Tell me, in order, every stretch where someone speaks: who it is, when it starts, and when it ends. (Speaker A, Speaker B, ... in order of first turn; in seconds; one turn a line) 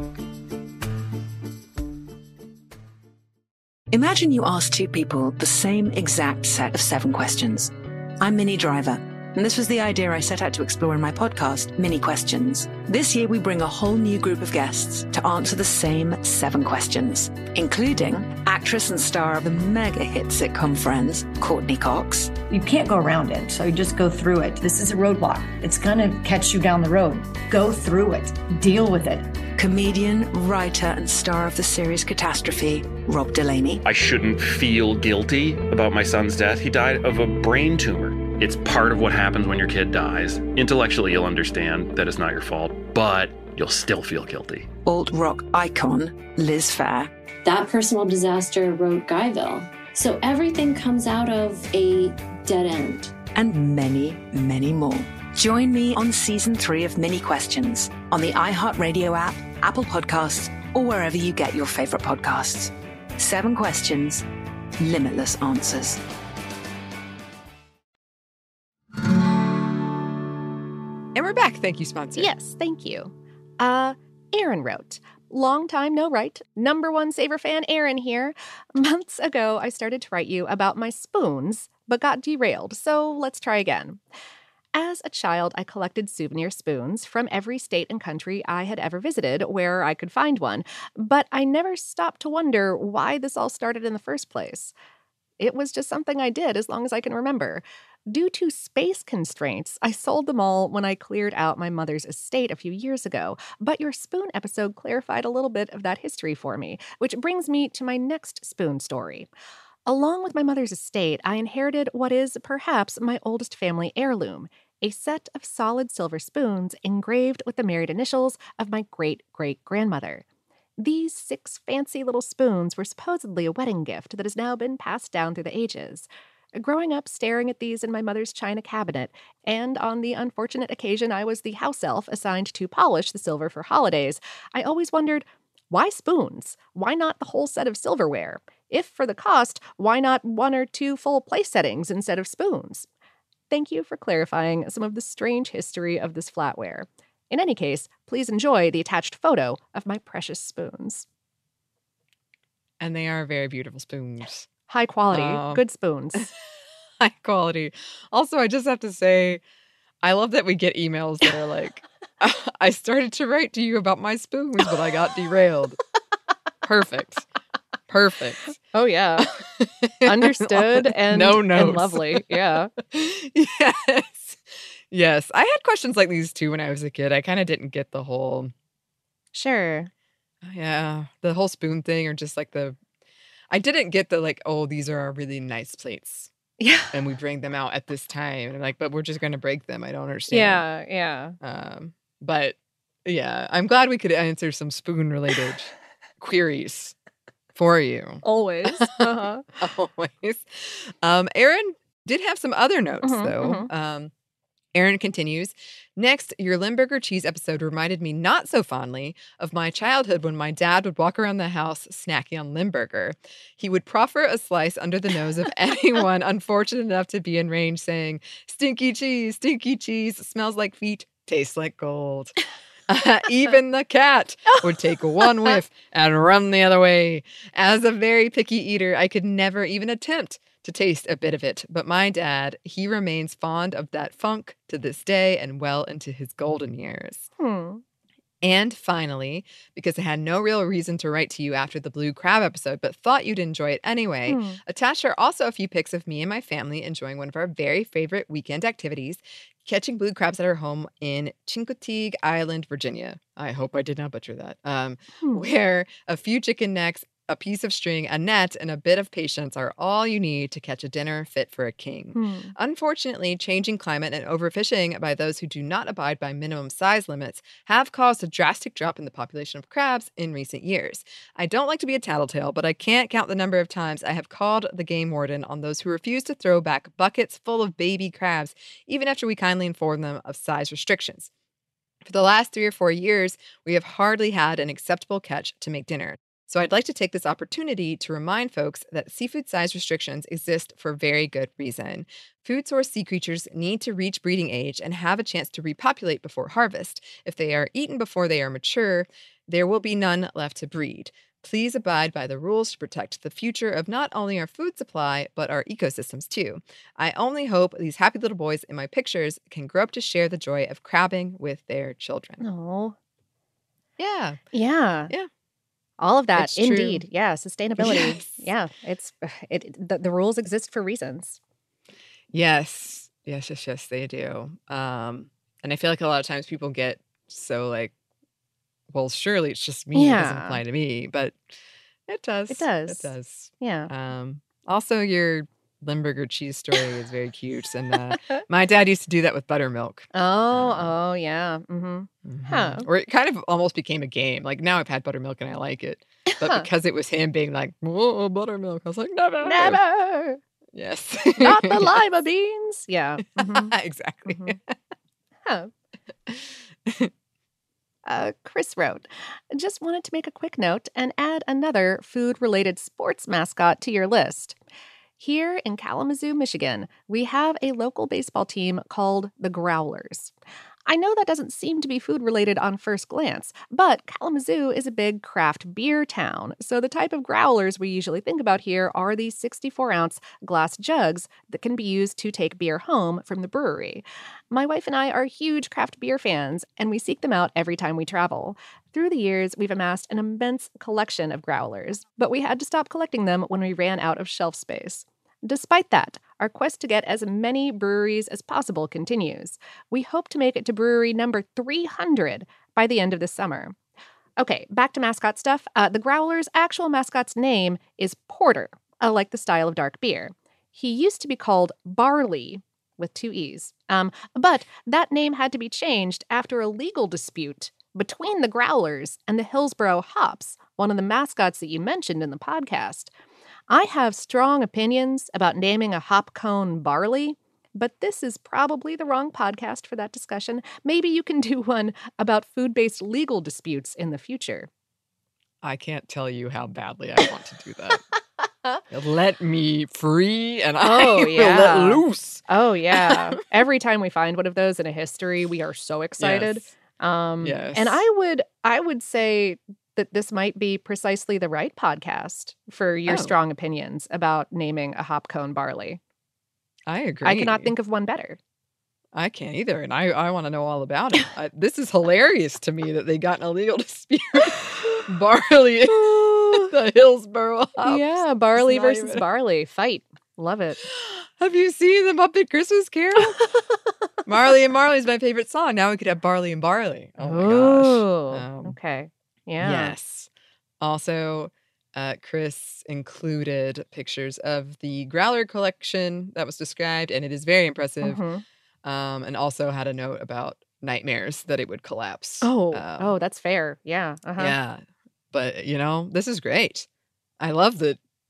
Speaker A: 3.9-22.4
Speaker B: 22.5-29.3
Speaker A: 29.6-33.8
Speaker C: 33.9-44.6
Speaker A: 44.9-47.1
Speaker D: 47.4-53.1
Speaker A: 53.3-64.2
Speaker A: 64.8-66.0
Speaker E: 71.1-72.3
Speaker F: 72.2-84.0
Speaker F: 84.7-94.7
Speaker F: 95.4-109.3
Speaker F: 109.9-120.2
Speaker F: 120.8-142.9
Speaker F: 143.5-151.1
Speaker E: 152.8-154.5
Speaker F: 154.7-156.3
Speaker E: 155.1-155.6
Speaker E: 157.0-159.4
Speaker E: 160.0-165.8
Speaker E: 166.6-167.3
Speaker E: 167.9-168.6
Speaker F: 168.7-169.3
Speaker E: 169.2-172.2
Speaker F: 170.1-172.7
Speaker E: 172.8-178.5
Speaker F: 179.3-179.9
Speaker E: 180.4-182.8
Speaker E: 183.5-186.3
Speaker F: 186.6-186.9
Speaker E: 186.9-190.7
Speaker F: 190.3-191.4
Speaker E: 191.4-196.9
Speaker E: 197.6-198.2
Speaker F: 198.2-199.4
Speaker E: 198.8-199.1
Speaker E: 199.6-204.1
Speaker F: 203.0-203.7
Speaker E: 204.7-237.3
Speaker F: 237.4-237.8
Speaker E: 238.4-281.3
Speaker F: 244.3-244.6
Speaker F: 262.1-262.5
Speaker E: 282.1-312.4
Speaker F: 312.4-312.9
Speaker E: 314.0-314.4
Speaker F: 314.5-315.1
Speaker F: 316.0-321.4
Speaker E: 316.4-317.1
Speaker E: 317.8-318.5
Speaker E: 322.3-327.9
Speaker E: 328.9-331.5
Speaker F: 329.9-330.6
Speaker E: 332.1-340.9
Speaker F: 332.5-333.9
Speaker F: 340.1-342.9
Speaker E: 342.2-349.8
Speaker F: 346.4-346.6
Speaker F: 349.4-350.4
Speaker E: 350.7-352.0
Speaker F: 351.4-353.7
Speaker E: 353.4-354.7
Speaker F: 354.3-354.6
Speaker F: 355.4-355.7
Speaker E: 356.3-357.1
Speaker F: 358.1-364.6
Speaker F: 365.2-370.3
Speaker F: 370.9-403.8
Speaker F: 404.4-423.1
Speaker F: 423.7-434.7
Speaker E: 435.6-438.0
Speaker E: 438.9-443.2
Speaker F: 440.8-456.0
Speaker E: 446.2-446.6
Speaker E: 447.4-448.0
Speaker E: 453.1-453.3
Speaker E: 456.9-457.7
Speaker F: 457.2-458.4
Speaker E: 459.1-469.2
Speaker F: 467.8-470.8
Speaker E: 470.8-473.4
Speaker E: 474.3-478.8
Speaker F: 477.2-479.9
Speaker E: 479.6-480.3
Speaker E: 480.8-488.2
Speaker F: 488.0-488.4
Speaker E: 488.8-493.2
Speaker F: 492.4-494.6
Speaker E: 494.4-496.9
Speaker E: 497.4-498.0